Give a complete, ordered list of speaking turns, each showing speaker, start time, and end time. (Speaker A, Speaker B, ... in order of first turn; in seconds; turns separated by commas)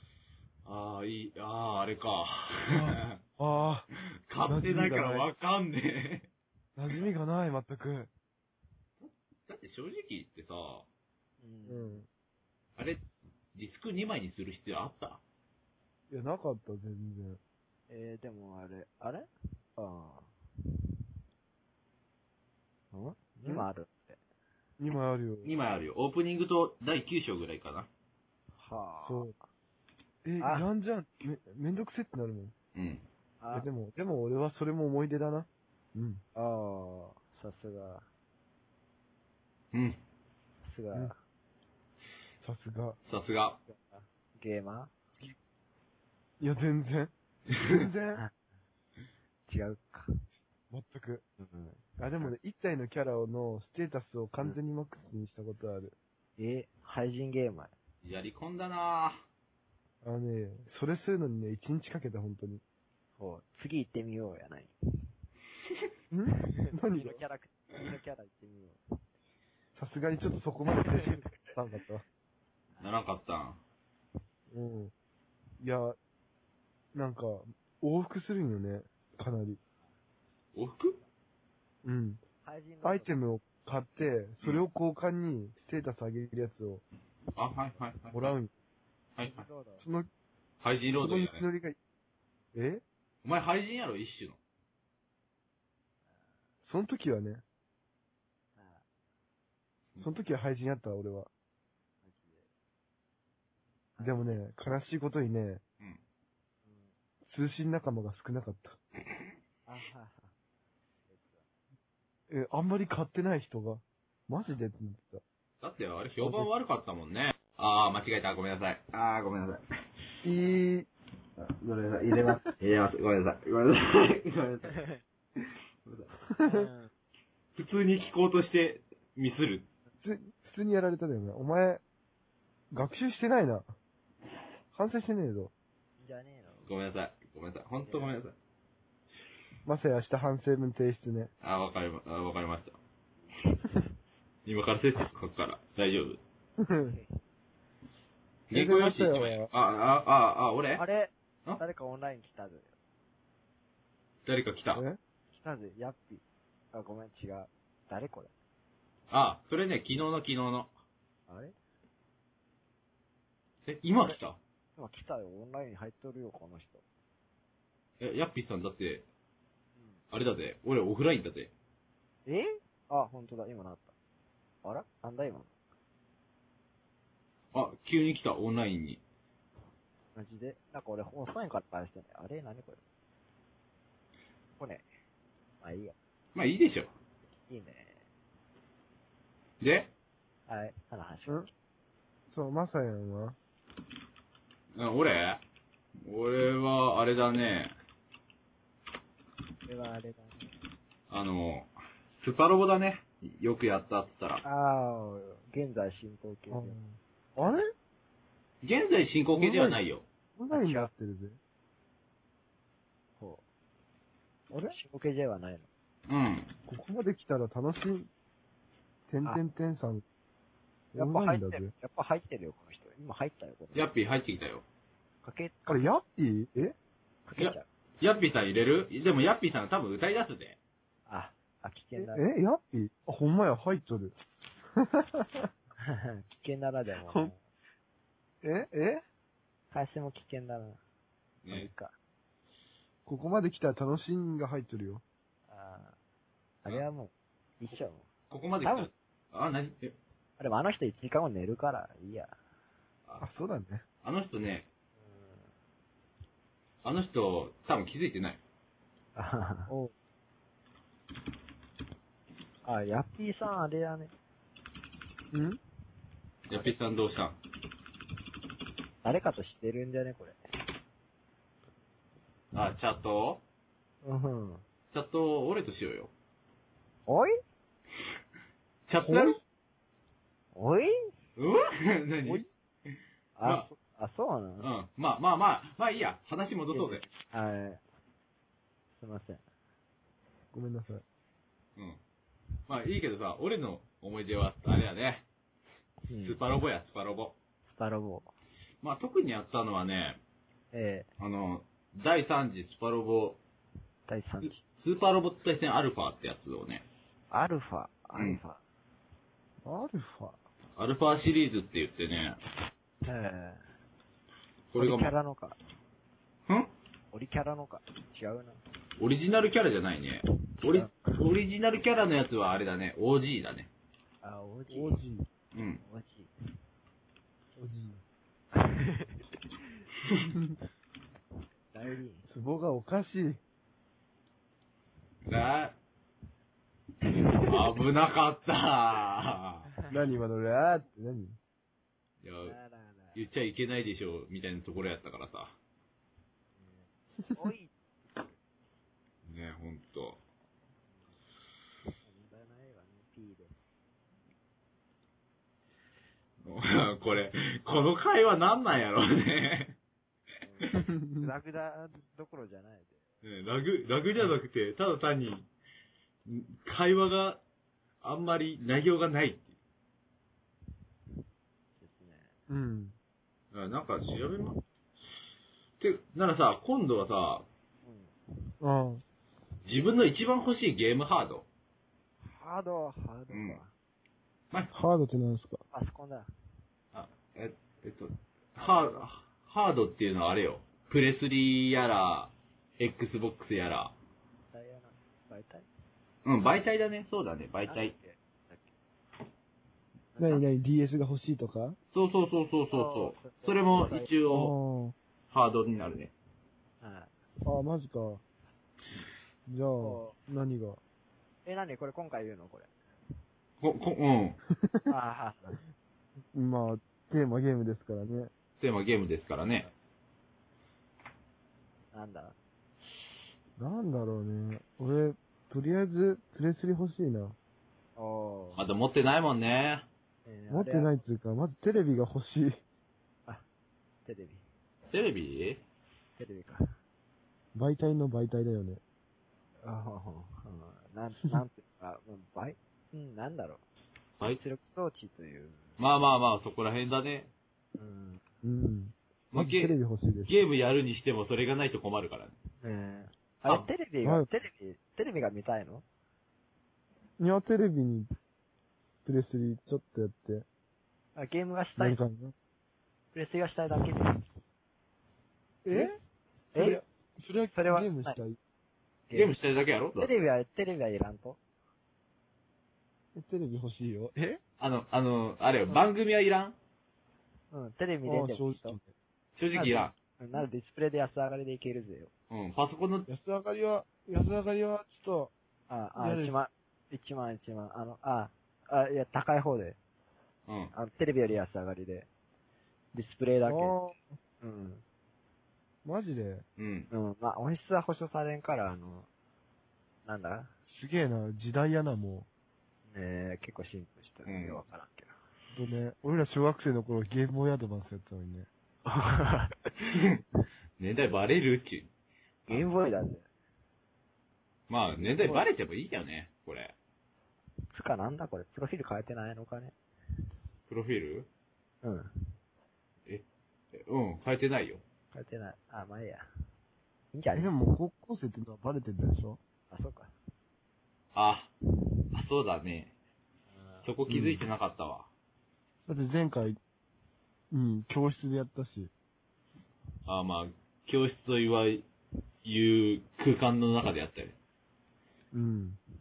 Speaker A: 0.7-3.2, Speaker B: 2.7-3.9, Speaker A: 4.0-6.3, Speaker B: 4.5-5.3, Speaker B: 6.8-8.1, Speaker A: 9.0-10.9, Speaker C: 11.4-12.0, Speaker B: 11.7-12.1, Speaker A: 12.8-13.0, Speaker A: 13.5-15.2, Speaker B: 16.1-17.4, Speaker C: 17.9-20.3, Speaker C: 22.9-24.2, Speaker B: 24.8-25.5, Speaker A: 25.4-27.9, Speaker C: 28.6-29.3, Speaker B: 29.1-29.3, Speaker B: 30.2-32.5, Speaker C: 30.4-30.7, Speaker A: 32.8-33.0, Speaker C: 33.4-33.7, Speaker B: 33.5-36.2, Speaker C: 36.4-38.1, Speaker A: 39.7-40.0, Speaker C: 40.6-41.2, Speaker B: 42.4-43.0, Speaker A: 43.1-43.6, Speaker C: 43.7-45.0, Speaker B: 46.4-48.2, Speaker A: 47.6-47.8, Speaker C: 49.5-50.1, Speaker B: 50.7-51.2, Speaker C: 51.4-52.3, Speaker B: 52.0-56.0, Speaker C: 56.4-57.7, Speaker A: 58.0-59.2, Speaker B: 60.0-62.6, Speaker C: 63.2-64.7, Speaker B: 66.1-67.2, Speaker C: 66.3-68.8, Speaker B: 69.8-72.0, Speaker C: 70.8-71.4, Speaker A: 72.8-73.6, Speaker B: 74.5-74.9, Speaker B: 75.6-76.0, Speaker B: 76.9-79.6, Speaker A: 80.5-81.0, Speaker B: 81.8-82.2, Speaker C: 82.4-83.1, Speaker B: 82.8-86.8, Speaker A: 87.4-88.2, Speaker B: 88.1-88.5, Speaker A: 89.2-89.4, Speaker C: 89.2-89.8, Speaker B: 89.8-90.1, Speaker A: 90.6-91.5, Speaker B: 91.0-91.8, Speaker B: 92.5-92.8, Speaker A: 93.2-94.4, Speaker B: 96.7-97.4, Speaker C: 98.6-98.8, Speaker B: 100.0-101.3, Speaker C: 102.0-102.5, Speaker C: 104.0-104.4, Speaker B: 104.0-105.6, Speaker C: 106.7-106.9, Speaker B: 107.3-108.8, Speaker C: 109.7-110.3, Speaker C: 111.1-111.5, Speaker B: 112.3-115.2, Speaker A: 115.6-119.6, Speaker B: 116.2-116.5, Speaker B: 120.2-120.9, Speaker A: 121.4-124.8, Speaker A: 125.9-126.1, Speaker B: 126.3-126.7, Speaker C: 126.4-126.9, Speaker A: 127.6-129.7, Speaker B: 130.0-131.8, Speaker B: 132.7-133.7, Speaker B: 134.7-135.5, Speaker C: 136.0-136.7, Speaker A: 136.7-138.3, Speaker C: 137.8-138.1, Speaker B: 139.7-141.3, Speaker A: 141.4-142.8, Speaker C: 143.4-143.7, Speaker A: 144.5-146.2, Speaker B: 146.6-147.0, Speaker C: 146.8-147.2, Speaker A: 148.5-150.8, Speaker B: 148.5-149.5, Speaker C: 150.8-152.7, Speaker A: 154.3-154.8, Speaker B: 154.7-155.0, Speaker C: 155.3-158.3, Speaker A: 159.1-160.7, Speaker C: 161.3-161.5, Speaker A: 163.7-164.4, Speaker C: 164.8-166.8, Speaker A: 168.0-169.1, Speaker A: 170.1-171.5, Speaker C: 172.3-173.9, Speaker C: 174.6-175.5, Speaker A: 177.5-179.0, Speaker C: 180.2-182.8, Speaker C: 184.6-184.8, Speaker C: 185.6-185.9, Speaker A: 186.3-186.9, Speaker C: 187.5-188.0, Speaker A: 189.6-189.9, Speaker C: 190.5-191.5, Speaker B: 192.3-193.4, Speaker A: 194.8-195.4, Speaker A: 196.0-197.7, Speaker C: 199.7-200.5, Speaker A: 201.1-204.4, Speaker C: 204.4-206.8, Speaker B: 206.5-207.7, Speaker A: 208.6-210.0, Speaker B: 209.4-209.8, Speaker B: 210.4-211.4, Speaker C: 210.5-210.9, Speaker C: 213.2-213.4, Speaker B: 214.5-214.8, Speaker C: 214.7-215.7, Speaker A: 216.1-216.5, Speaker B: 216.7-218.1, Speaker B: 219.1-220.0, Speaker B: 220.9-221.7, Speaker C: 220.9-223.9, Speaker A: 223.8-224.6, Speaker C: 225.2-225.8, Speaker B: 225.7-226.8, Speaker C: 227.3-227.7, Speaker A: 227.4-230.6, Speaker C: 231.1-232.2, Speaker B: 232.0-234.2, Speaker B: 234.8-235.5, Speaker C: 235.8-237.4, Speaker B: 237.1-237.3, Speaker B: 238.4-239.0, Speaker C: 239.7-240.8, Speaker A: 241.4-241.7, Speaker C: 241.5-241.9, Speaker B: 243.1-245.0, Speaker C: 245.5-246.0, Speaker C: 246.6-248.1, Speaker A: 248.3-249.9, Speaker C: 248.6-248.9, Speaker C: 250.4-252.3, Speaker B: 253.2-253.8, Speaker A: 254.0-254.7, Speaker C: 255.1-255.4, Speaker A: 256.8-258.4, Speaker C: 259.2-259.7, Speaker C: 262.6-264.1, Speaker B: 265.3-265.6, Speaker A: 266.5-267.4, Speaker C: 269.0-270.4, Speaker A: 272.5-273.4, Speaker C: 274.0-274.6, Speaker A: 274.9-276.1, Speaker C: 277.1-277.4, Speaker A: 278.9-279.4, Speaker B: 279.1-279.4, Speaker C: 280.6-281.1, Speaker A: 281.4-282.4, Speaker C: 283.4-284.7, Speaker A: 284.6-287.0, Speaker C: 286.7-287.8, Speaker C: 289.0-289.4, Speaker B: 290.5-291.0, Speaker A: 292.7-295.2, Speaker C: 296.1-296.4, Speaker A: 296.2-297.4, Speaker C: 297.7-298.3, Speaker A: 298.8-300.2, Speaker C: 300.7-301.1, Speaker A: 301.2-303.4, Speaker C: 304.1-304.6, Speaker A: 304.8-306.9, Speaker C: 307.3-308.6, Speaker B: 309.6-310.4, Speaker A: 310.8-312.4, Speaker C: 313.0-313.7, Speaker A: 314.7-315.1, Speaker C: 314.8-315.6, Speaker C: 317.1-318.6, Speaker A: 319.0-323.7, Speaker C: 320.6-321.2, Speaker C: 324.2-325.0, Speaker B: 324.7-325.3, Speaker A: 325.5-325.8, Speaker C: 325.8-326.3, Speaker B: 327.6-328.0, Speaker C: 328.5-329.7, Speaker C: 331.7-332.3, Speaker B: 332.3-333.4, Speaker A: 335.2-335.8, Speaker C: 337.1-337.5, Speaker A: 337.1-339.7, Speaker B: 339.9-341.4, Speaker A: 342.2-342.6, Speaker C: 342.4-343.2, Speaker A: 343.1-345.5, Speaker C: 346.6-348.3, Speaker A: 349.2-350.2, Speaker C: 352.0-353.6, Speaker A: 356.4-359.8, Speaker C: 360.4-363.0, Speaker B: 360.8-361.3, Speaker A: 363.2-365.5, Speaker A: 366.3-367.4, Speaker A: 368.0-369.5, Speaker C: 371.8-372.3, Speaker B: 372.5-373.0, Speaker A: 373.5-374.6, Speaker A: 375.8-377.5, Speaker C: 377.9-378.1, Speaker B: 378.6-379.0, Speaker A: 379.6-381.5, Speaker C: 382.2-383.7, Speaker A: 383.3-383.6, Speaker B: 384.7-385.6, Speaker C: 385.7-386.3, Speaker A: 386.9-393.9, Speaker C: 394.5-395.7, Speaker A: 396.2-397.9, Speaker C: 397.7-398.7, Speaker C: 400.1-400.4, Speaker B: 400.2-401.8, Speaker A: 401.9-404.6, Speaker C: 402.7-404.1, Speaker B: 404.3-404.9, Speaker A: 405.3-406.1, Speaker C: 406.8-407.1, Speaker B: 407.4-408.2, Speaker B: 409.5-410.8, Speaker C: 409.8-410.2, Speaker C: 411.4-412.7, Speaker A: 413.6-414.4, Speaker B: 414.5-414.9, Speaker C: 414.9-415.6, Speaker B: 416.3-418.3, Speaker A: 418.6-419.7, Speaker C: 421.9-422.4, Speaker B: 423.6-427.4, Speaker C: 428.0-428.6, Speaker A: 428.6-429.9, Speaker C: 430.3-430.9, Speaker B: 430.5-432.6, Speaker C: 434.1-434.4, Speaker A: 434.9-435.6, Speaker C: 436.2-436.7, Speaker B: 437.5-438.8, Speaker C: 439.6-443.6, Speaker C: 444.3-445.7, Speaker A: 445.8-447.3, Speaker C: 447.8-448.2, Speaker B: 448.4-450.3, Speaker A: 449.3-452.4, Speaker C: 452.6-455.9, Speaker B: 457.2-458.1, Speaker B: 459.1-460.5, Speaker C: 461.2-462.0, Speaker B: 461.8-462.4, Speaker C: 463.1-464.2, Speaker B: 465.6-466.0, Speaker C: 466.5-466.8, Speaker B: 466.6-468.4, Speaker C: 467.6-468.2, Speaker C: 469.1-469.4, Speaker A: 469.1-470.1, Speaker C: 470.0-471.4, Speaker B: 473.1-474.4, Speaker A: 474.6-476.6, Speaker C: 477.5-478.8, Speaker B: 478.1-478.9, Speaker A: 479.4-479.9, Speaker C: 479.5-482.1, Speaker A: 482.3-483.1, Speaker B: 483.1-485.3, Speaker C: 485.7-489.8, Speaker B: 486.0-486.3, Speaker A: 490.5-490.7, Speaker C: 490.7-492.1, Speaker C: 492.9-493.8, Speaker B: 493.5-494.0, Speaker C: 494.4-494.8, Speaker B: 495.9-496.4, Speaker A: 496.6-496.9, Speaker C: 496.9-499.1, Speaker C: 500.1-500.5, Speaker B: 500.7-502.3, Speaker C: 502.9-505.1, Speaker A: 504.2-504.6, Speaker B: 505.5-508.5, Speaker C: 508.9-509.6, Speaker A: 509.9-510.2, Speaker A: 510.8-511.9, Speaker C: 512.5-513.3, Speaker A: 514.7-516.7, Speaker C: 515.0-515.5, Speaker C: 517.7-519.8, Speaker A: 520.7-521.3, Speaker C: 521.8-522.1, Speaker A: 523.1-524.8, Speaker C: 525.1-526.2, Speaker C: 527.1-527.5, Speaker B: 527.3-529.4, Speaker C: 529.7-530.1, Speaker A: 531.1-531.5, Speaker A: 532.1-532.9, Speaker C: 533.6-533.9, Speaker A: 533.9-535.1, Speaker B: 534.1-534.5, Speaker B: 535.9-536.6, Speaker B: 537.5-538.9, Speaker A: 540.1-541.9, Speaker A: 542.4-544.3, Speaker B: 545.3-545.8